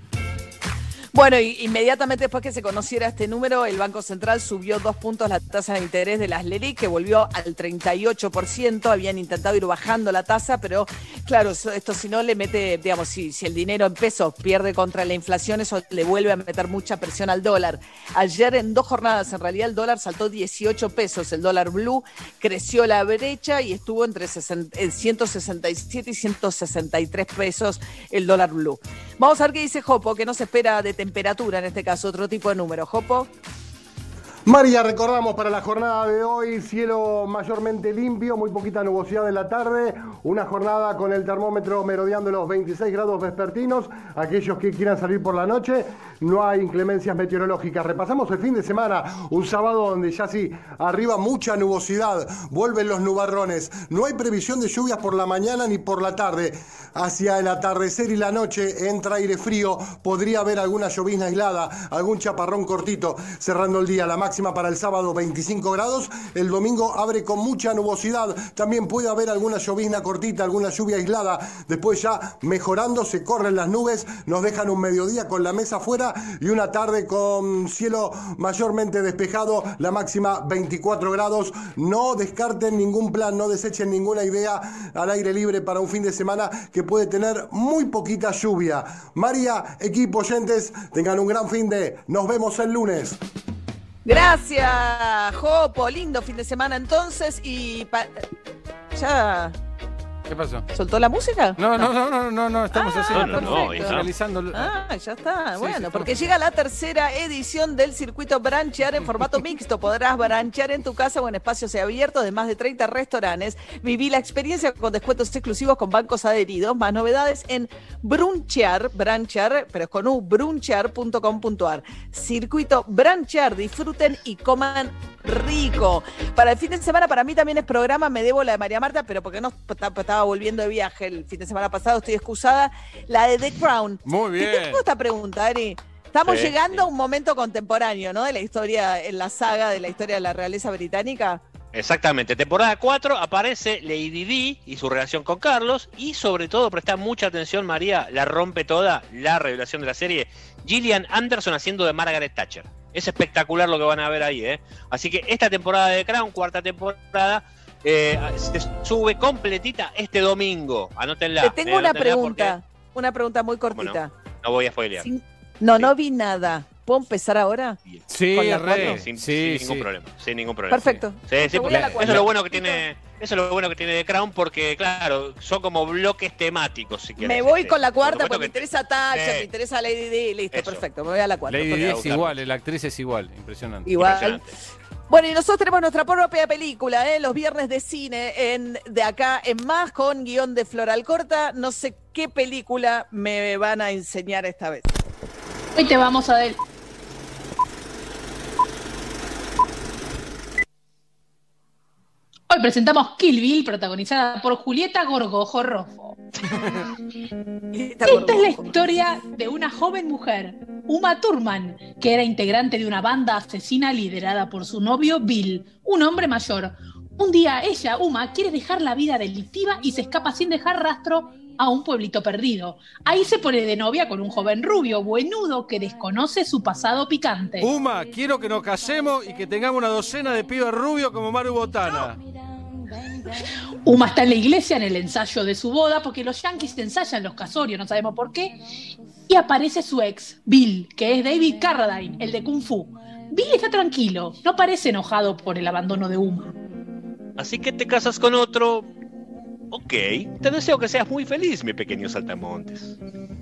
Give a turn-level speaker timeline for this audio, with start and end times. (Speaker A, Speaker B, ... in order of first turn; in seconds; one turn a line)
Speaker A: 1.1-33.3
Speaker B: 34.5-93.2
Speaker A: 94.0-98.2
Speaker A: 98.9-99.5
Speaker C: 100.3-100.7
Speaker A: 100.7-101.9
Speaker C: 101.6-104.7
Speaker A: 102.7-141.4
Speaker D: 103.1-104.1
Speaker C: 105.6-106.1
Speaker C: 134.1-134.8
Speaker D: 136.2-136.8
Speaker D: 141.7-162.6
Speaker A: 161.4-164.1
Speaker D: 163.7-165.1
Speaker A: 165.0-167.8
Speaker D: 167.9-179.5
Speaker C: 168.1-169.9
Speaker A: 170.7-172.8
Speaker C: 171.7-172.3
Speaker A: 177.2-182.1
Speaker D: 180.5-180.8
Speaker C: 181.5-183.9
Speaker D: 181.8-182.3
Speaker A: 183.9-184.4
Speaker D: 183.9-184.5
Speaker A: 185.1-194.9
Speaker E: 195.8-196.6
Speaker E: 202.5-206.2
Speaker A: 207.7-208.8
Speaker E: 208.1-227.7
Speaker C: 227.6-232.2
Speaker E: 233.8-238.6
Speaker E: 239.3-246.5
Speaker D: 247.4-248.9
Speaker D: 249.7-252.9